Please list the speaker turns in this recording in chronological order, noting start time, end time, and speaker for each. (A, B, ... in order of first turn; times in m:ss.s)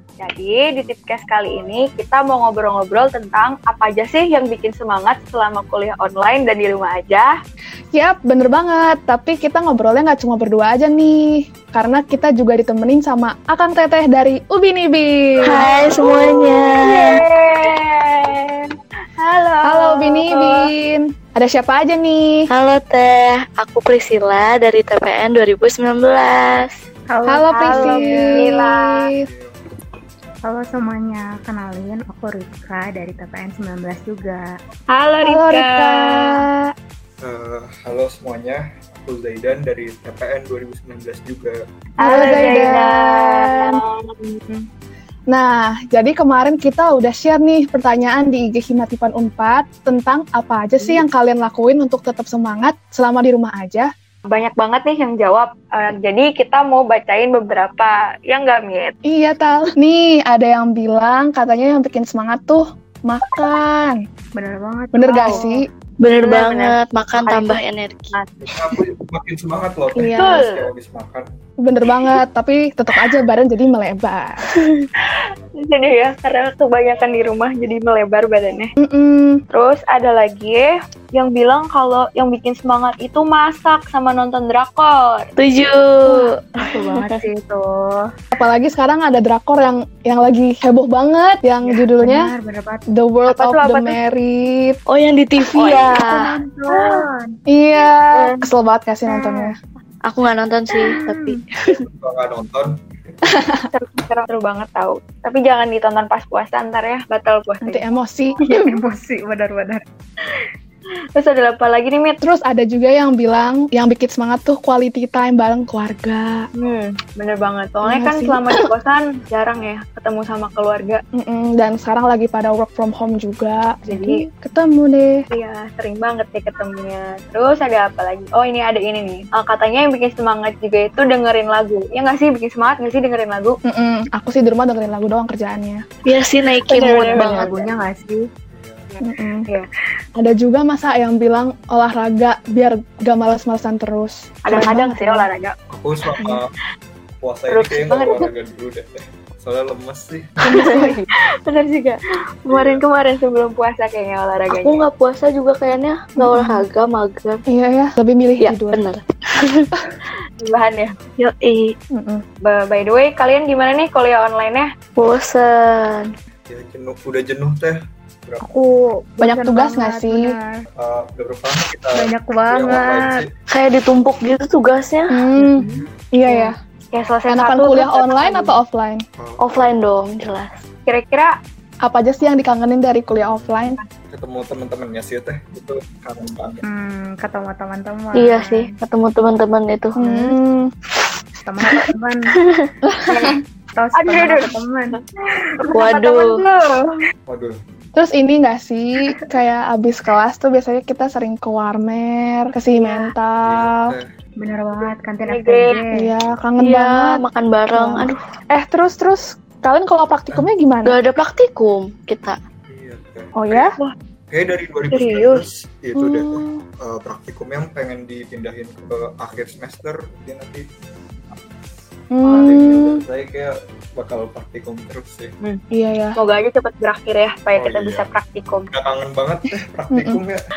0:00.2-0:07.3 A
0:07.9-0:15.7 B
0:15.4-0:20.7 A
0:15.5-0:17.2 C
0:19.6-0:22.5 B
0:22.5-0:26.8 C
0:27.1-0:28.4 D
0:27.3-0:29.3 B
0:27.5-0:29.1 A
0:29.1-0:29.6 E
0:30.4-0:34.6 D
0:34.9-0:36.4 A
0:35.2-0:36.7 B
0:37.2-0:41.6 E
0:42.0-0:44.6 A
0:42.0-0:43.8 B
0:42.1-0:42.4 D
0:45.3-0:53.9 B
0:54.3-0:59.0 A
0:59.0-1:04.0 B
1:04.4-1:05.6 D
1:04.9-1:05.7 B
1:05.1-1:05.4 A
1:06.0-1:08.2 C
1:06.1-1:07.6 A
1:08.4-1:11.3 E
1:10.0-1:10.5 B
1:10.1-1:10.7 A
1:11.6-1:14.6 B
1:14.6-1:14.8 C
1:15.0-1:18.7 A
1:18.8-1:19.4 B
1:19.5-1:25.3 A
1:25.4-1:26.4 C
1:26.6-1:28.1 D
1:27.0-1:27.2 C
1:28.3-1:32.3 B
1:31.6-1:32.9 D
1:32.9-1:34.8 B
1:33.3-1:34.0 A
1:34.9-1:36.2 C
1:35.6-1:35.9 A
1:35.6-1:37.3 D
1:36.7-1:37.1 A
1:37.5-1:39.6 B
1:38.1-1:38.5 A
1:39.1-1:39.5 D
1:40.1-1:41.8 C
1:40.8-1:41.4 D
1:41.7-1:43.4 E
1:43.3-1:43.6 B
1:43.7-1:47.9 A
1:47.6-1:48.5 B
1:48.4-1:49.8 D
1:51.2-1:52.2 A
1:52.2-1:56.5 B
1:56.6-2:01.0 A
1:57.8-1:58.7 B
2:01.2-2:05.2 B
2:03.9-2:04.2 A
2:05.3-2:13.6 A
2:13.7-2:15.8 B
2:16.1-2:17.5 C
2:16.7-2:17.7 A
2:16.7-2:18.3 D
2:18.5-2:18.9 E
2:18.9-2:19.7 A
2:19.0-2:19.5 B
2:20.2-2:25.3 B
2:24.4-2:25.6 A
2:25.7-2:26.5 E
2:27.2-2:30.6 E
2:27.5-2:28.3 A
2:30.5-2:31.0 C
2:30.5-2:34.8 A
2:30.6-2:31.0 B
2:32.5-2:32.8 E
2:34.5-2:37.4 C
2:36.2-2:36.6 B
2:37.5-2:38.8 B
2:38.4-2:39.7 C
2:40.4-2:41.0 A
2:41.2-2:41.8 C
2:41.9-2:42.2 B
2:42.4-2:44.7 A
2:45.0-2:46.1 C
2:46.5-2:48.4 E
2:48.4-2:50.7 D
2:49.2-2:50.4 B
2:50.8-2:53.3 E
2:52.0-2:53.2 D
2:53.5-2:55.2 C
2:55.1-2:56.6 B
2:55.4-2:55.9 D
2:55.6-2:56.0 E
2:56.9-2:58.6 A
2:57.3-2:59.0 B
2:59.2-2:59.8 E
2:59.4-3:00.6 C
3:00.9-3:01.3 A
3:01.8-3:03.8 B
3:03.2-3:06.6 E
3:06.6-3:08.7 D
3:08.1-3:10.0 C
3:10.0-3:10.4 D
3:10.0-3:10.7 B
3:11.4-3:12.4 D
3:12.4-3:12.7 C
3:12.9-3:13.3 B
3:13.1-3:13.4 A
3:13.8-3:15.0 D
3:14.0-3:14.5 A
3:15.6-3:17.1 A
3:15.7-3:16.4 C
3:17.3-3:17.6 E
3:18.0-3:24.0 B
3:23.4-3:24.1 E
3:24.4-3:26.1 D
3:25.3-3:25.8 A
3:25.9-3:27.2 B
3:26.6-3:28.2 C
3:27.7-3:31.0 B
3:30.8-3:32.4 C
3:32.7-3:33.7 E
3:33.4-3:33.7 B
3:34.3-3:40.7 E
3:34.9-3:35.4 A
3:36.0-3:36.6 B
3:42.1-3:43.0 B
3:42.2-3:45.4 E
3:45.7-3:46.2 B
3:46.2-3:48.7 A
3:47.5-3:48.1 E
3:48.7-3:50.4 E
3:49.9-3:50.2 B